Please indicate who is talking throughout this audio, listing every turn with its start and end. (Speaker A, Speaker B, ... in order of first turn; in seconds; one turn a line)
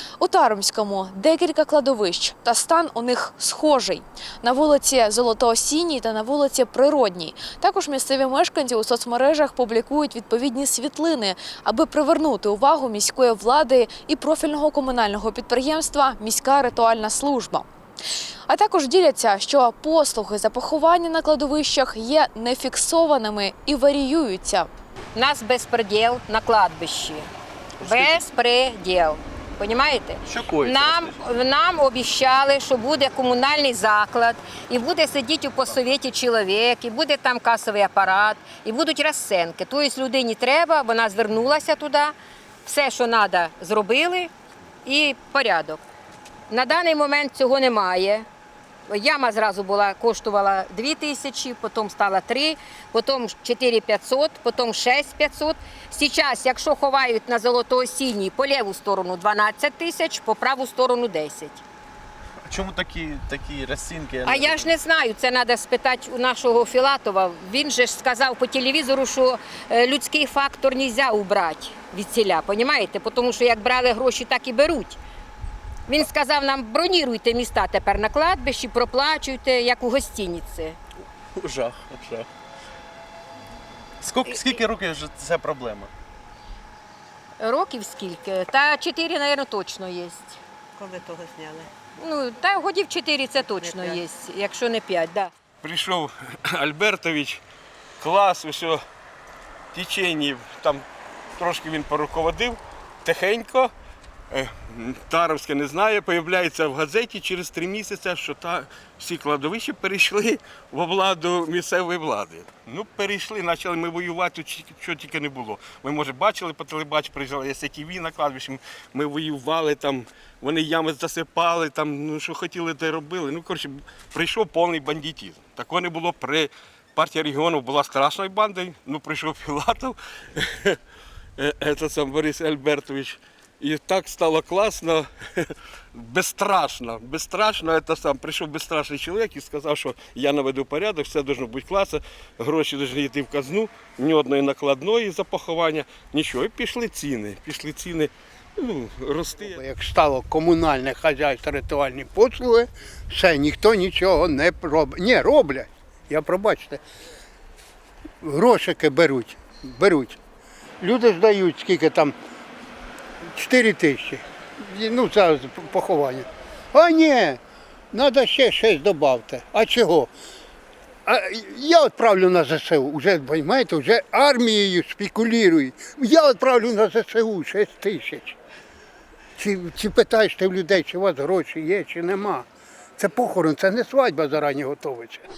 Speaker A: 0.2-17.6
Speaker A: 18.5-24.7
Speaker B: 25.1-27.3
Speaker B: 27.8-42.1
Speaker C: 30.3-31.1
Speaker B: 42.6-44.3
Speaker B: 44.9-45.8
Speaker B: 46.5-48.2
Speaker B: 48.9-61.6
Speaker C: 62.5-64.7
Speaker B: 64.2-75.0
Speaker B: 75.9-80.8
Speaker C: 84.0-85.8
Speaker B: 87.4-90.4
Speaker B: 92.0-95.3
Speaker D: 95.6-97.4
Speaker D: 98.0-98.8
Speaker D: 99.7-100.8
Speaker D: 101.4-103.7
Speaker D: 104.3-130.8
Speaker D: 131.4-135.1
Speaker D: 135.9-149.5
Speaker E: 149.4-156.8
Speaker E: 158.2-160.2
Speaker E: 160.8-162.1
Speaker E: 163.3-167.4
Speaker E: 167.9-170.1
Speaker E: 171.1-178.3
Speaker E: 179.4-182.4
Speaker E: 183.0-185.2